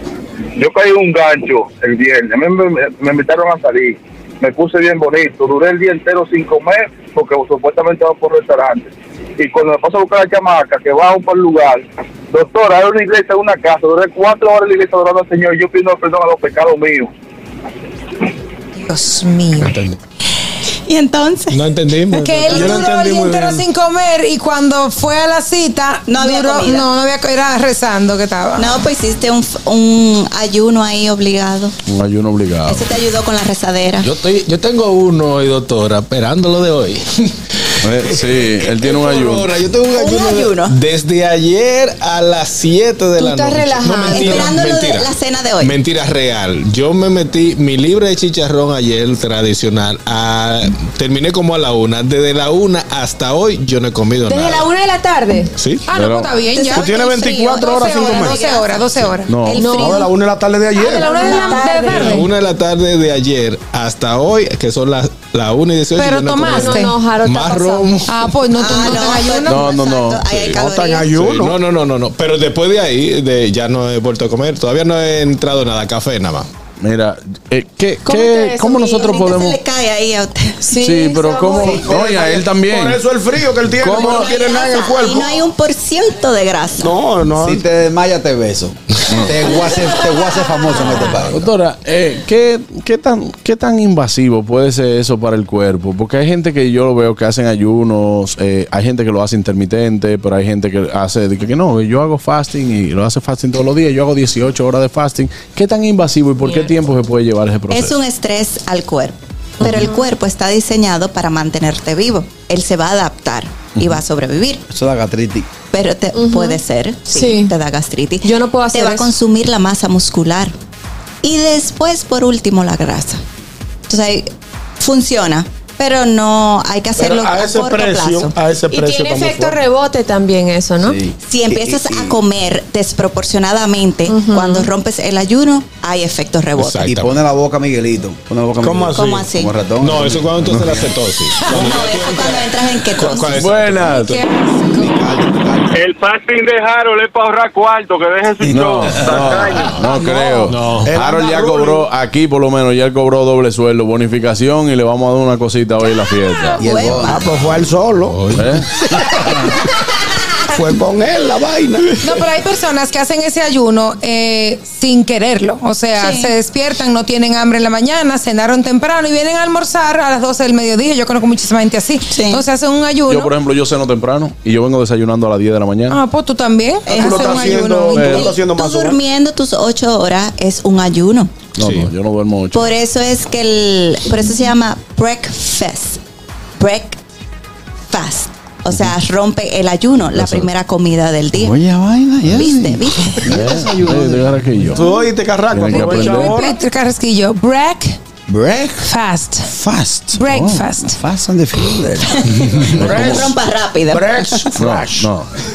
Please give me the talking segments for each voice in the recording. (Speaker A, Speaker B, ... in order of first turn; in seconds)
Speaker A: 0.6-17.1
Speaker B: 18.8-19.8, 22.1-28.7, 55.9-60.1, 61.0-62.3, 66.0-66.9, 68.1-69.7, 143.9-144.9, 162.0-173.3, 175.9-178.2, 195.7-198.0, 198.8-199.5, 200.2-201.0
Speaker C: 19.6-20.0, 21.5-23.4, 34.0-45.1, 45.6-54.7, 55.6-55.8, 61.9-68.3, 71.2-76.5, 136.6-137.2, 139.8-144.2, 150.5-150.9, 158.1-158.6, 181.6-181.9
Speaker D: 20.9-21.6, 26.1-26.9, 28.6-31.8, 32.7-34.1, 40.0-40.8, 44.1-45.8, 56.5-58.9, 59.4-59.7, 68.5-71.2, 79.1-80.7, 83.9-86.9, 107.7-114.6, 115.7-120.5, 121.2-123.2, 123.9-128.3, 131.2-136.9, 138.9-139.5, 141.4-143.5, 156.6-157.2, 166.0-166.3, 172.1-172.4, 176.9-181.3, 182.5-186.0, 186.6-187.0, 187.9-191.6, 192.3-193.4, 202.2-204.5
Speaker E: 22.5-23.6, 56.7-58.4, 59.7-61.4, 70.5-71.6, 81.6-85.4, 86.8-87.7, 127.0-129.6, 138.6-139.3, 150.8-151.8, 157.0-158.2, 160.5-161.9, 176.9-179.0, 194.8-196.6, 203.0-203.2, 203.9-205.1
Speaker F: 31.9-32.9, 37.8-39.5, 55.9-56.3, 59.3-59.7, 69.5-70.3, 76.8-79.6, 80.8-83.0, 83.8-84.4, 89.1-89.4, 91.3-108.0, 113.8-114.0, 143.3-144.2, 148.5-156.6, 158.3-158.7, 173.1-176.0, 177.9-178.3, 181.6-182.8, 190.2-190.5, 193.3-194.8, 195.5-196.4, 202.8-203.3, 204.6-205.3
Speaker G: 43.2-44.5, 54.3-55.5, 59.6-60.1, 60.8-62.3, 66.4-68.0, 78.1-79.2, 80.7-81.8, 90.8-91.1, 109.6-110.1, 116.1-117.5, 118.2-119.1, 128.7-131.0, 134.1-134.7
Speaker H: 87.4-91.5, 114.7-115.5, 130.8-132.2, 136.8-140.4, 144.7-145.8, 156.6-157.3, 191.3-194.8, 198.3-198.9, 199.4-203.1
Speaker I: 145.8-149.4